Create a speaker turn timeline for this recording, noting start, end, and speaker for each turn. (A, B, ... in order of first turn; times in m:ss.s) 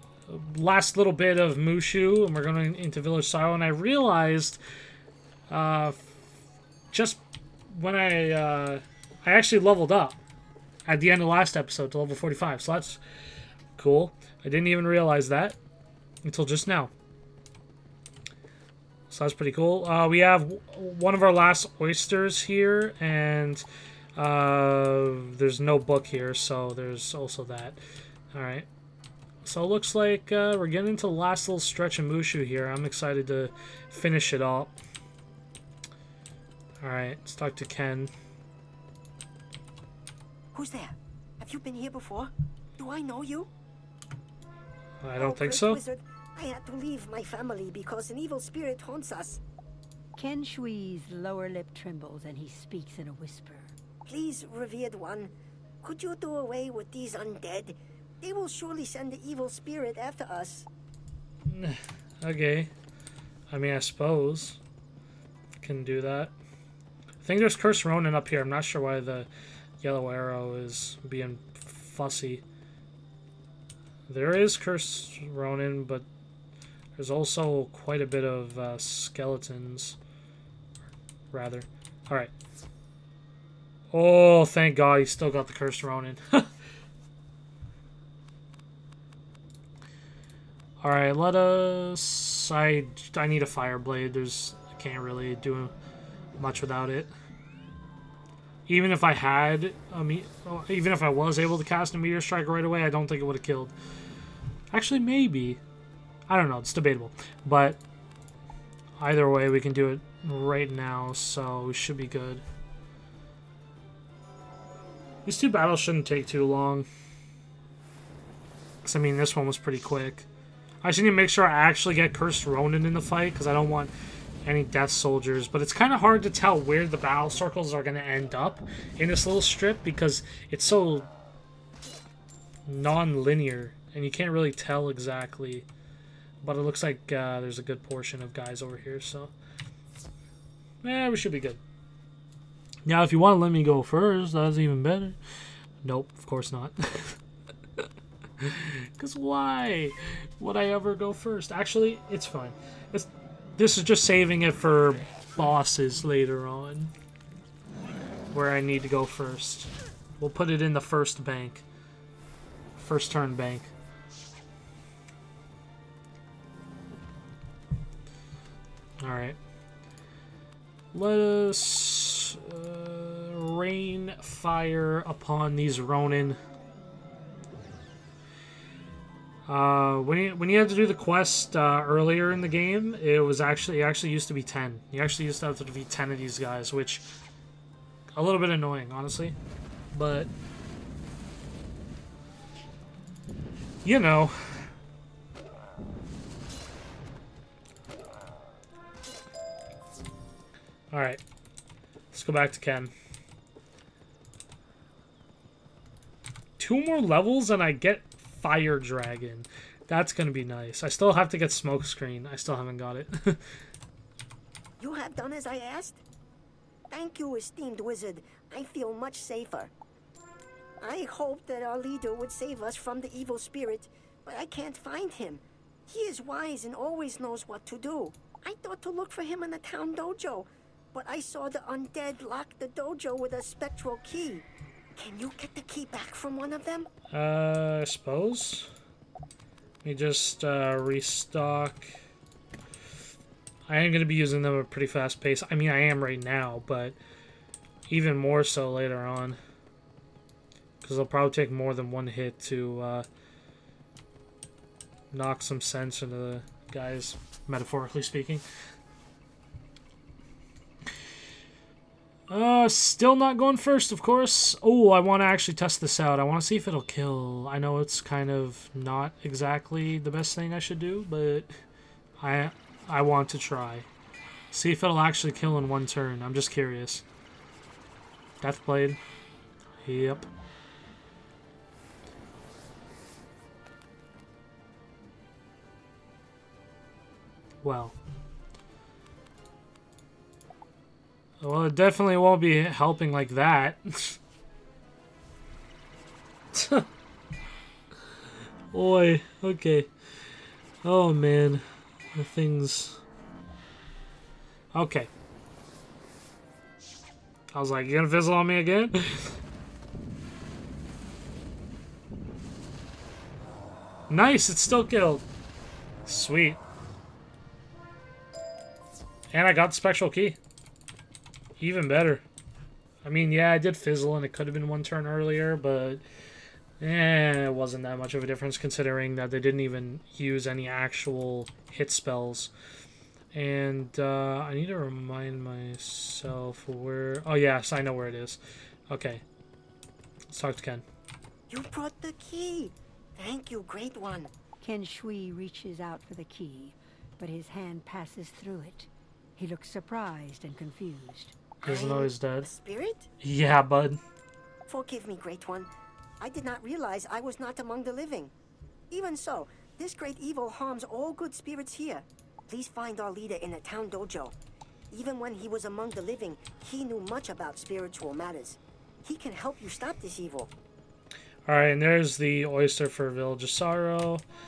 0:00.3-0:04.6 A
0:05.5-0:06.2 A
0:06.9-0:10.2 A
0:10.9-0:13.0 A
0:13.8-0:15.6 A
0:16.2-0:16.9 A
0:19.1-0:23.6 A
0:24.2-0:27.8 A
0:28.3-0:28.7 A
0:29.4-0:34.8 A
0:36.8-0:38.1 A
0:40.5-0:43.5 B
0:45.0-0:45.8 A
0:45.2-0:49.4 B
0:50.2-0:53.7 C
0:54.1-1:00.7 B
1:01.4-1:02.7 A
1:03.5-1:04.6 A
1:05.6-1:06.3 A
1:07.2-1:09.3 A
1:09.8-1:12.4 A
1:14.1-1:16.1 A
1:17.0-1:20.0 A
1:21.3-1:22.3 A
1:23.9-1:26.5 A
1:30.8-1:35.7 A
1:36.4-1:37.1 A
1:38.7-1:43.7 A
1:44.7-1:45.6 A
1:46.3-1:47.8 A
1:49.0-1:52.4 A
1:55.3-1:56.9 A
1:58.8-2:00.3 A
2:00.8-2:03.9 A
2:04.4-2:11.1 A
2:12.7-2:15.7 A
2:16.4-2:19.3 A
2:20.8-2:21.6 A
2:22.9-2:25.2 A
2:25.8-2:27.2 A
2:28.4-2:36.9 A
2:38.3-2:41.6 A
2:42.8-2:43.7 A
2:49.0-2:49.4 A
2:50.9-2:56.4 A
2:59.5-3:07.1 A
3:08.1-3:09.4 A
3:09.9-3:10.3 A
3:13.8-3:14.6 A
3:20.9-3:21.2 A
3:22.1-3:22.9 A
3:26.6-3:33.4 A
3:34.8-3:36.0 B
3:36.9-3:39.7 B
3:40.8-3:56.9 B
3:57.1-3:58.7 A
3:59.8-4:01.9 A
4:03.7-4:07.0 A
4:07.9-4:09.4 A
4:10.8-4:13.1 A
4:15.1-4:18.4 A
4:22.3-4:31.5 A
4:32.2-4:33.9 A
4:34.5-4:37.0 A
4:38.4-4:39.0 A
4:39.8-4:40.3 A
4:47.6-4:48.0 A
4:51.4-4:54.2 A
4:56.5-4:56.9 A
4:58.7-4:59.9 A
5:00.8-5:01.6 A
5:02.2-5:03.0 A
5:04.7-5:05.1 A
5:07.5-5:09.3 A
5:14.1-5:15.2 A
5:16.1-5:16.6 A
5:19.3-5:20.4 A
5:21.6-5:22.2 A
5:23.0-5:26.0 A
5:26.8-5:32.5 A
5:33.3-5:39.2 A
5:40.3-5:40.8 A
5:41.5-5:44.3 B
5:44.6-5:51.4 C
5:51.6-5:52.5 A
5:51.6-5:53.1 B
5:53.2-5:54.0 A
5:54.7-5:58.3 B
5:58.9-6:04.4 B
6:04.9-6:10.5 B
6:11.5-6:14.2 A